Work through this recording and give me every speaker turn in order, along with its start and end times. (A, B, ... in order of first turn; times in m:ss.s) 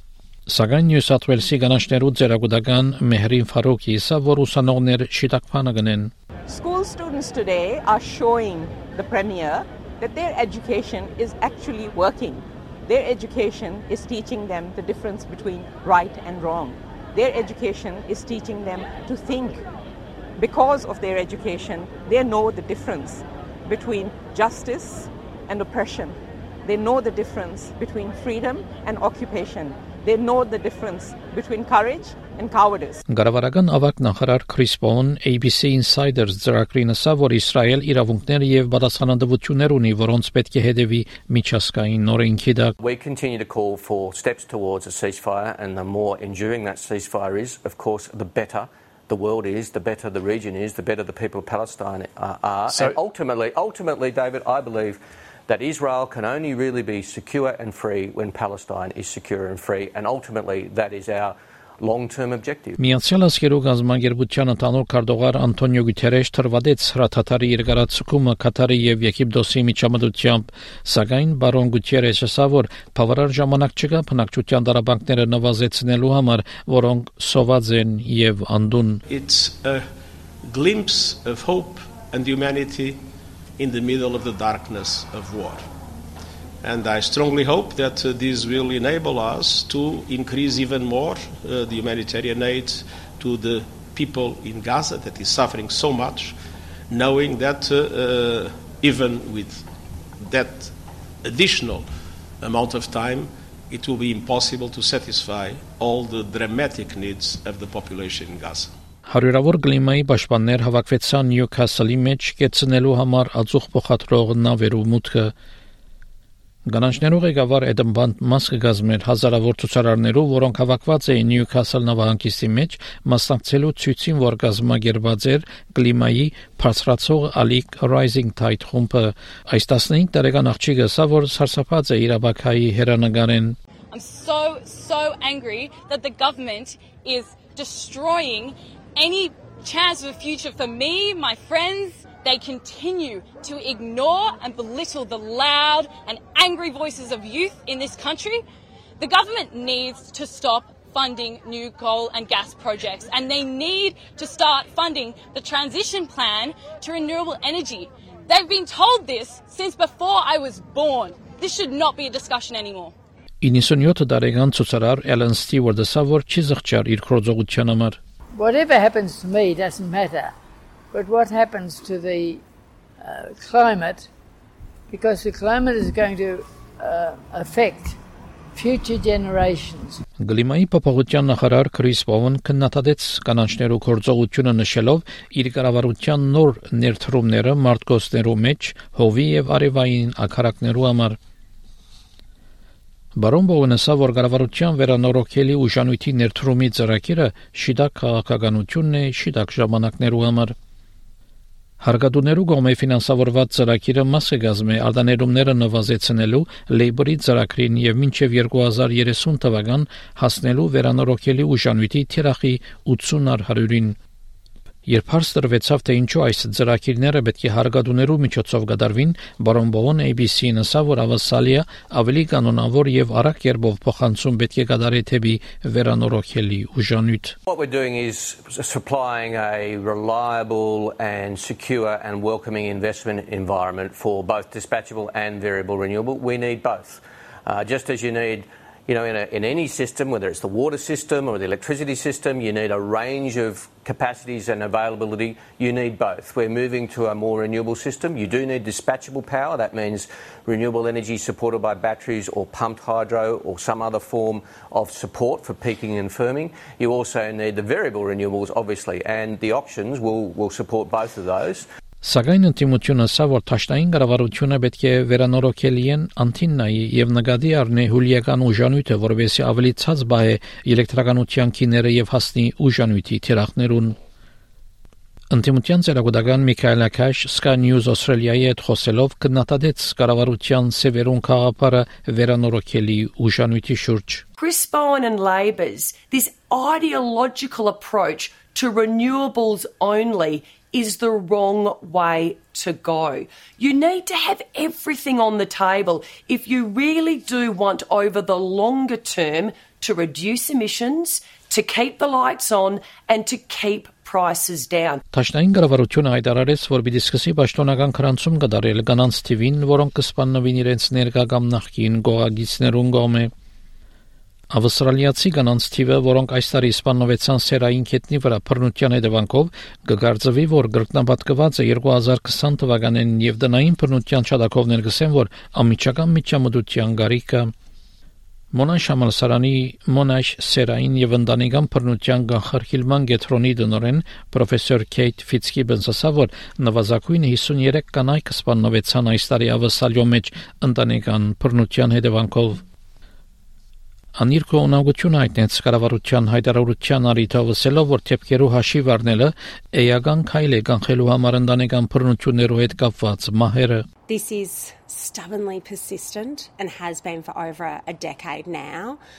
0:00.5-0:06.1 A
0:06.5-0:19.6 B
0:20.4-0:33.0 B
0:33.1-0:42.8 A
0:42.8-1:02.8 C
0:52.7-0:53.0 D
1:02.8-1:19.0 A
1:19.1-1:19.8 D
1:20.5-1:23.0 D
1:23.6-1:25.6 D
1:26.6-1:36.4 D
1:36.9-1:39.7 D
1:40.2-1:41.9 D
1:42.4-1:48.7 D
1:49.1-1:55.3 A
1:56.7-2:13.6 A
2:13.9-2:28.4 E
2:29.0-2:42.9 E
2:43.4-2:48.0 A
2:48.3-2:50.3 F
2:50.9-2:52.4 F
2:53.0-2:54.1 F
2:54.9-2:58.0 F
2:58.6-3:00.0 F
3:00.2-3:11.2 A
3:13.2-3:20.5 A
3:21.8-3:34.0 A
3:34.9-3:47.4 A
3:47.5-4:21.7 C
4:22.0-4:34.0 A
4:35.3-4:44.2 A
4:44.4-5:05.0 G
5:05.1-5:13.3 A
5:14.5-5:27.5 A
5:28.5-5:42.6 A
5:44.2-5:53.8 A
5:54.1-5:59.0 H